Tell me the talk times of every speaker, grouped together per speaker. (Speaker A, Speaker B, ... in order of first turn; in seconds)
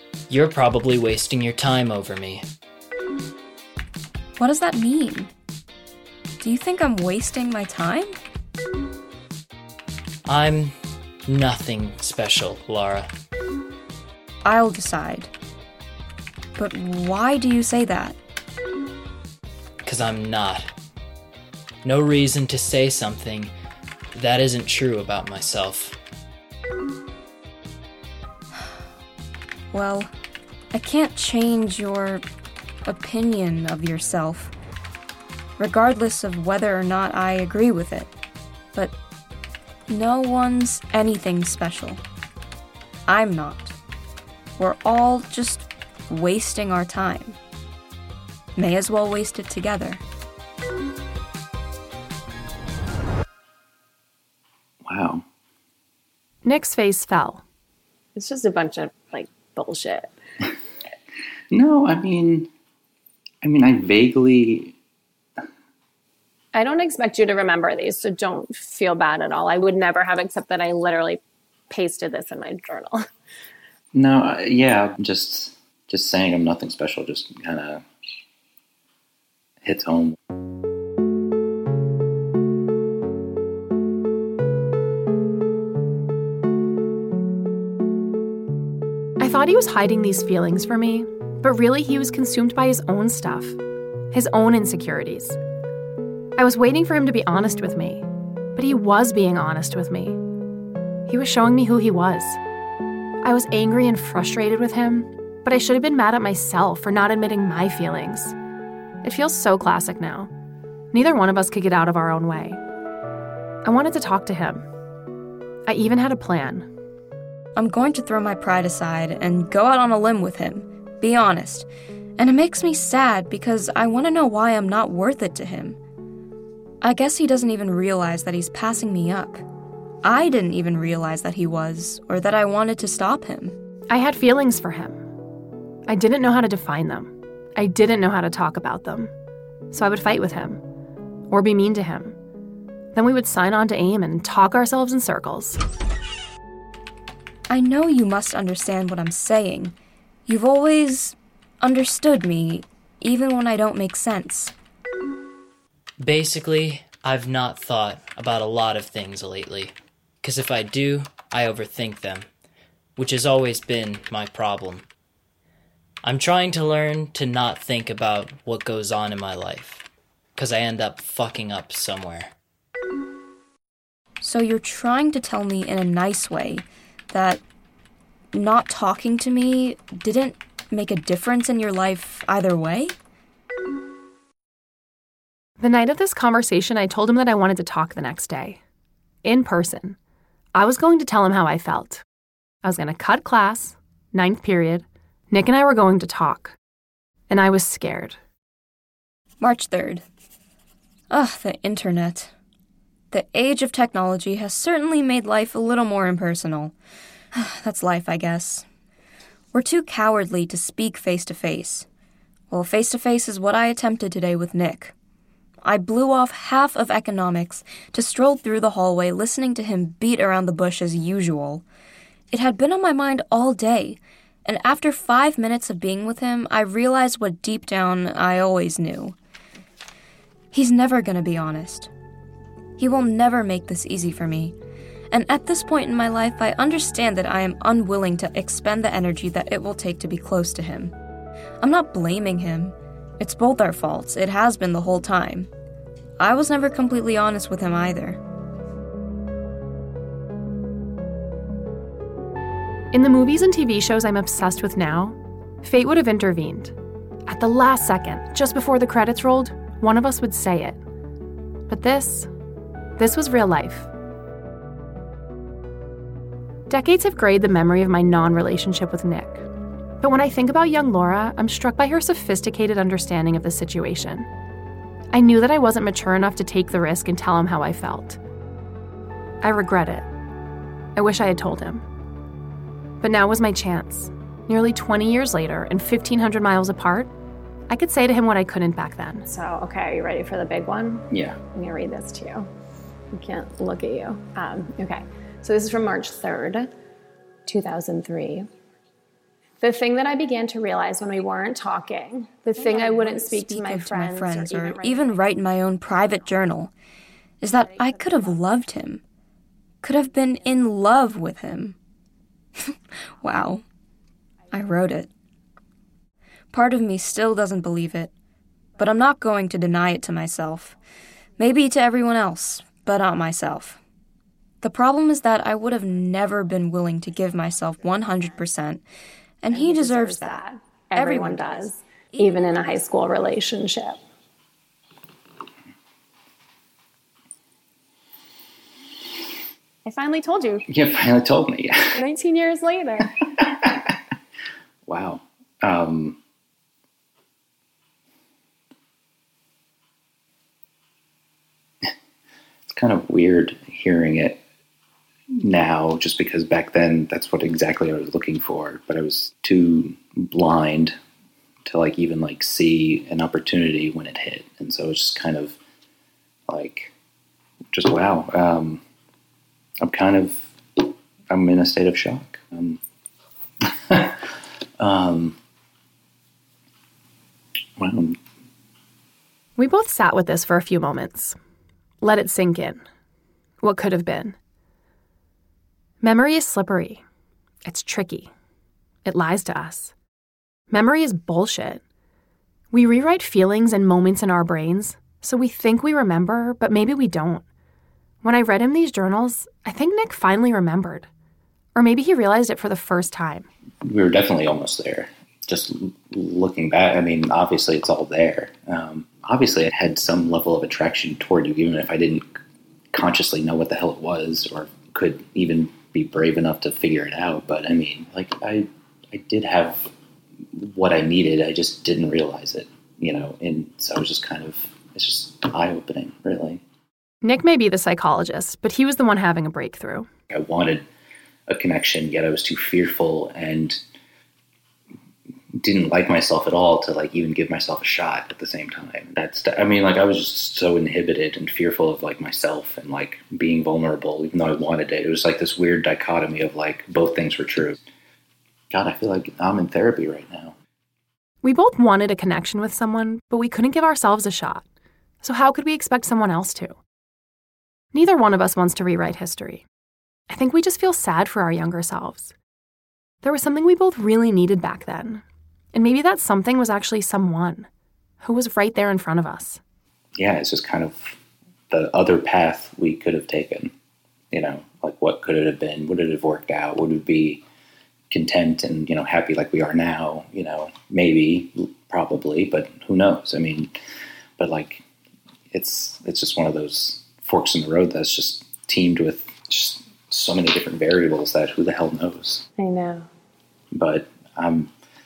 Speaker A: 0.3-2.4, 10.2-10.7, 11.3-13.1, 19.8-20.7, 21.8-23.5, 24.1-26.0, 156.0-162.3, 163.0-164.9, 166.0-169.8, 170.3-172.3
Speaker B: 4.4-5.3, 6.4-8.1, 14.4-15.3, 16.6-18.2, 29.7-30.1, 30.7-32.2, 32.8-34.5, 35.6-38.1, 39.9-42.0, 43.1-43.8, 44.6-47.4, 48.5-50.0, 117.5-125.8, 126.8-129.4, 130.0-133.6, 147.5-154.5, 174.2-177.4, 178.3-182.9, 199.4-200.0, 201.1-202.3, 203.1-206.7, 207.3-208.7, 209.5-211.9, 212.5-214.9, 215.6-221.6, 222.3-229.2, 230.5-231.9, 232.8-234.6, 235.1-240.9, 241.6-245.5, 246.2-248.2, 302.7-306.7, 307.4-309.0, 309.8-311.8, 312.7-313.6, 314.5-315.1, 316.5-318.1, 318.8-320.7, 321.4-323.8, 324.6-328.8, 329.4-332.8
Speaker C: 54.9-55.2, 61.5-62.5, 63.4-64.8, 73.9-77.8, 79.6-80.2, 291.1-291.4, 340.7-341.8, 343.4-343.9, 344.9-346.2, 352.6-354.4, 355.4-360.9, 361.6-365.6, 366.5-366.9, 367.7-368.8, 369.8-372.8, 373.9-374.2, 374.8-375.4, 377.8-378.2, 403.8-412.3, 412.9-419.9, 420.5-426.6, 430.3-430.8, 431.5-433.8, 435.6-447.8, 448.7-450.5, 470.1-471.2, 471.7-473.7, 474.3-477.4, 478.1-483.7, 484.4-484.8, 485.5-492.4, 493.7-494.7
Speaker D: 56.4-57.4, 89.2-93.6, 94.1-95.4, 96.4-100.2, 101.1-102.4, 103.2-108.3, 109.0-110.3, 110.9-112.6, 113.6-114.7, 115.7-116.7, 133.9-135.0, 135.9-139.1, 139.7-140.6, 141.3-142.2, 142.9-145.6, 185.6-188.6, 189.2-190.0, 190.5-192.0, 192.6-196.6, 197.3-198.2, 252.9-256.7, 257.3-260.8, 261.7-262.3, 263.0-263.9, 266.7-269.5, 270.0-274.3, 275.1-278.2, 279.4-280.1, 280.9-281.8, 283.0-287.1, 287.7-289.2, 379.6-381.4, 382.0-382.8, 383.6-384.4, 386.0-387.0, 387.6-388.3, 389.0-389.9, 390.7-391.8, 392.7-397.4, 398.2-401.1, 401.7-403.5, 427.2-430.1, 451.4-454.6, 455.2-456.8, 457.9-459.7, 460.3-462.3, 463.2-467.7, 468.2-469.6
Speaker E: 58.1-60.1, 66.5-73.0, 289.2-292.5, 293.1-296.7, 297.5-298.5, 299.6-305.2, 329.5-334.0, 339.8-340.6, 341.9-343.1, 492.6-493.1